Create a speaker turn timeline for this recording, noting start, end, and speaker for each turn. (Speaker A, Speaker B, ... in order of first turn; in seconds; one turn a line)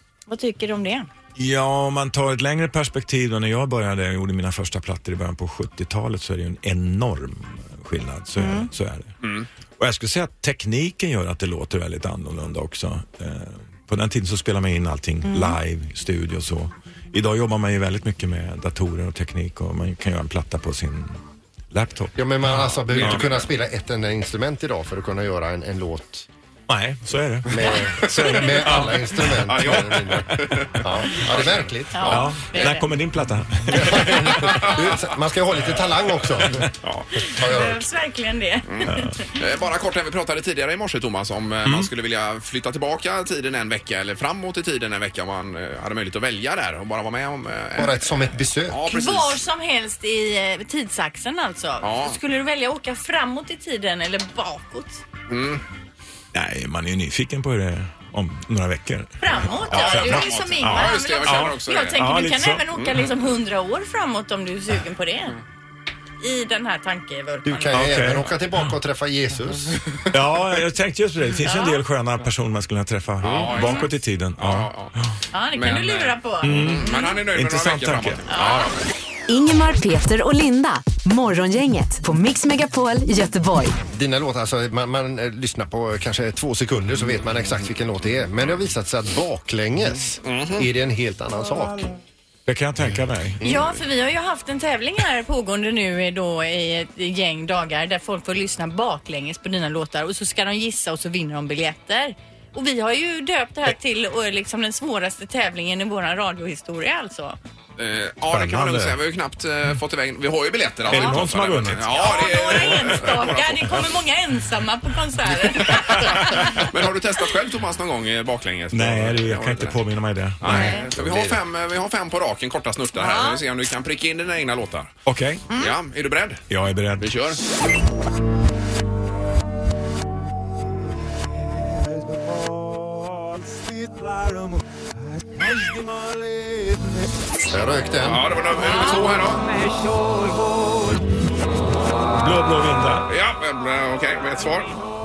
Speaker A: 0.3-1.1
Speaker B: 1.4-9.2
Speaker A: 8.4-8.7
Speaker C: 9.2-9.5
Speaker B: 9.8-21.2
Speaker A: 15.2-15.6
Speaker B: 21.7-22.3
Speaker D: 22.2-26.3
Speaker C: 22.5-23.5
Speaker B: 22.9-23.2
Speaker B: 26.7-30.6
Speaker D: 27.5-32.3
Speaker C: 28.7-32.7
Speaker A: 31.9-32.9
Speaker B: 32.1-34.0
Speaker D: 33.7-36.7
Speaker C: 34.2-35.0
Speaker C: 36.4-37.1
Speaker A: 37.2-39.4
Speaker D: 37.3-37.9
Speaker C: 38.7-49.4
Speaker B: 41.6-41.9
Speaker D: 47.8-48.9
Speaker A: 48.9-55.0
Speaker C: 51.8-52.2
Speaker C: 55.3-55.6
Speaker B: 56.3-62.6
Speaker A: 59.2-65.4
Speaker C: 59.7-62.0
Speaker C: 62.7-63.0
Speaker A: 66.2-68.0
Speaker D: 67.5-69.8
Speaker B: 67.7-68.7
Speaker B: 70.1-75.2
Speaker A: 71.4-71.8
Speaker C: 73.2-75.0
Speaker A: 73.6-73.9
Speaker A: 75.3-77.2
Speaker C: 75.5-78.8
Speaker B: 76.4-78.3
Speaker A: 78.3-78.7
Speaker E: 79.3-83.8
Speaker D: 83.9-91.9
Speaker C: 90.2-90.7
Speaker B: 92.5-93.4
Speaker D: 93.4-93.7
Speaker A: 93.4-107.4
Speaker C: 107.8-113.8
Speaker B: 108.3-109.0
Speaker B: 110.9-112.0
Speaker A: 110.9-111.2
Speaker A: 111.9-116.6
Speaker C: 115.7-119.8
Speaker B: 118.7-121.4
Speaker C: 120.4-124.9
Speaker A: 120.5-120.9
Speaker A: 123.0-123.4
Speaker B: 125.1-125.5
Speaker C: 125.5-126.4
Speaker B: 126.5-127.1
Speaker C: 127.0-127.4
Speaker D: 137.5-138.3
Speaker C: 138.0-139.5
Speaker B: 142.2-143.1
Speaker C: 143.1-144.7